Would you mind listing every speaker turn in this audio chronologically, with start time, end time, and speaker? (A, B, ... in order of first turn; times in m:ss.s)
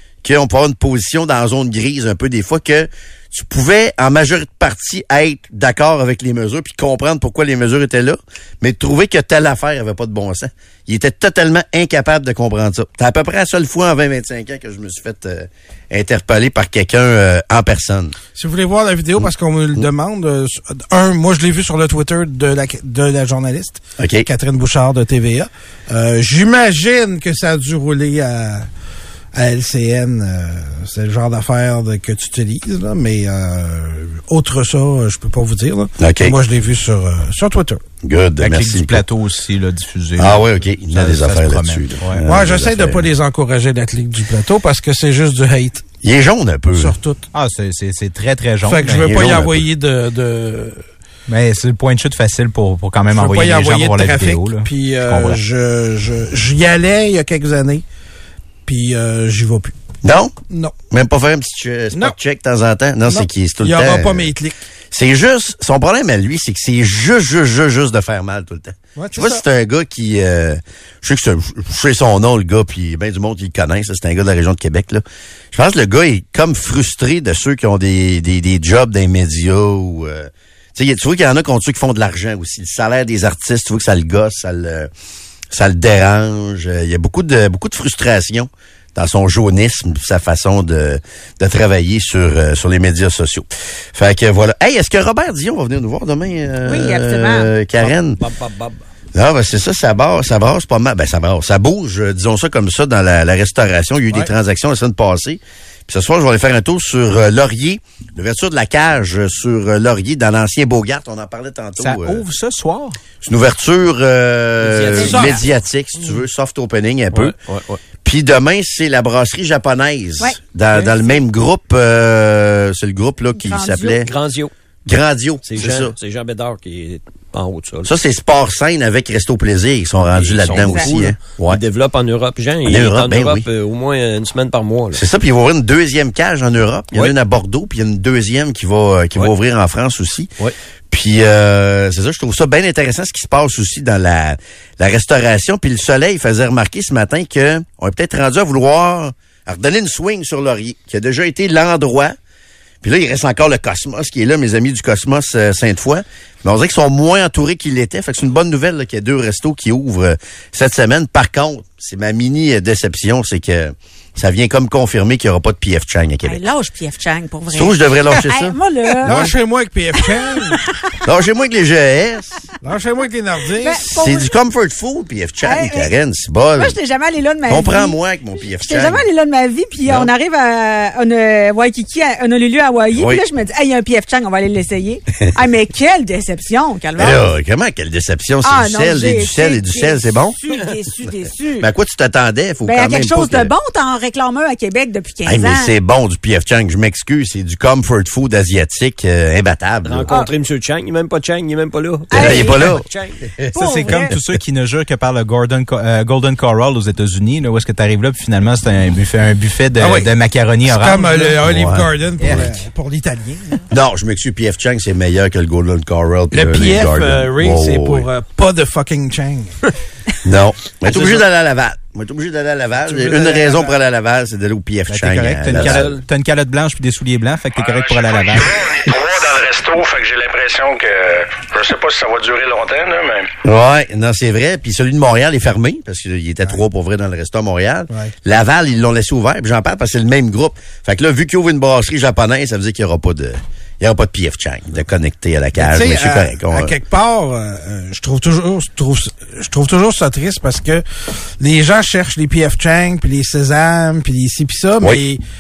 0:00.2-0:18.2 A
0:18.4-0:28.7 B
0:24.0-0:24.3 A
0:29.3-0:37.8 B
0:36.0-0:36.4 A
0:38.0-0:39.0 A
0:38.4-0:42.3 C
0:40.2-0:43.1 A
0:42.3-0:45.8 B
0:46.0-0:47.0 A
0:46.7-0:47.3 B
0:47.3-0:49.1 C
0:48.6-0:50.8 B
0:48.9-0:49.6 A
0:51.3-0:55.4 C
0:53.1-0:57.8 B
0:58.6-0:59.8 B
1:00.0-1:00.3 A
1:00.5-1:00.8 B
1:00.9-1:04.3 A
1:03.1-1:04.6 B
1:04.9-1:24.9 A
1:09.0-1:09.4 B
1:25.5-1:38.2 A
1:36.6-1:37.5 D
1:37.8-1:38.8 E
1:39.1-1:52.2 A
1:51.8-1:53.0 C
1:53.2-1:57.4 A
1:54.6-1:55.4 E
1:55.0-1:55.4 B
1:55.0-1:55.4 D
1:57.1-1:57.8 E
1:58.0-2:04.1 A
2:03.4-2:04.1 D
2:04.1-2:04.5 E
2:04.9-2:05.9 A
2:05.5-2:07.9 E
2:07.8-2:11.6 A
2:10.1-2:15.0 E
2:10.6-2:10.9 D
2:12.6-2:13.5 A
2:14.9-2:20.3 A
2:20.9-2:32.2 A
2:32.8-2:46.4 A
2:46.2-2:49.3 D
2:47.5-2:49.3 A
2:49.0-2:50.6 B
2:50.0-2:51.0 D
2:51.0-2:52.4 A
2:52.6-2:53.8 B
2:53.6-2:54.3 D
2:53.8-2:56.8 A
2:55.4-2:55.9 D
2:56.6-2:58.0 D
2:57.5-2:59.0 A
2:58.6-3:07.3 D
2:59.8-3:00.1 A
3:02.9-3:03.2 A
3:07.0-3:10.4 A
3:08.4-3:11.7 D
3:11.6-3:13.5 A
3:12.6-3:15.7 D
3:15.2-3:20.1 A
3:19.8-3:23.3 E
3:22.1-3:22.8 D
3:22.1-3:24.4 A
3:23.5-3:24.1 D
3:23.6-3:31.4 C
3:29.8-3:30.1 B
3:30.6-3:33.6 B
3:31.4-3:32.5 A
3:32.2-3:32.5 C
3:33.7-3:38.1 A
3:36.3-3:39.6 B
3:40.2-3:45.9 A
3:42.9-3:43.7 B
3:44.9-3:48.6 C
3:45.5-3:46.0 E
3:47.6-3:53.3 F
3:53.4-4:06.8 A
4:05.6-4:10.8 B
4:11.4-4:15.2 B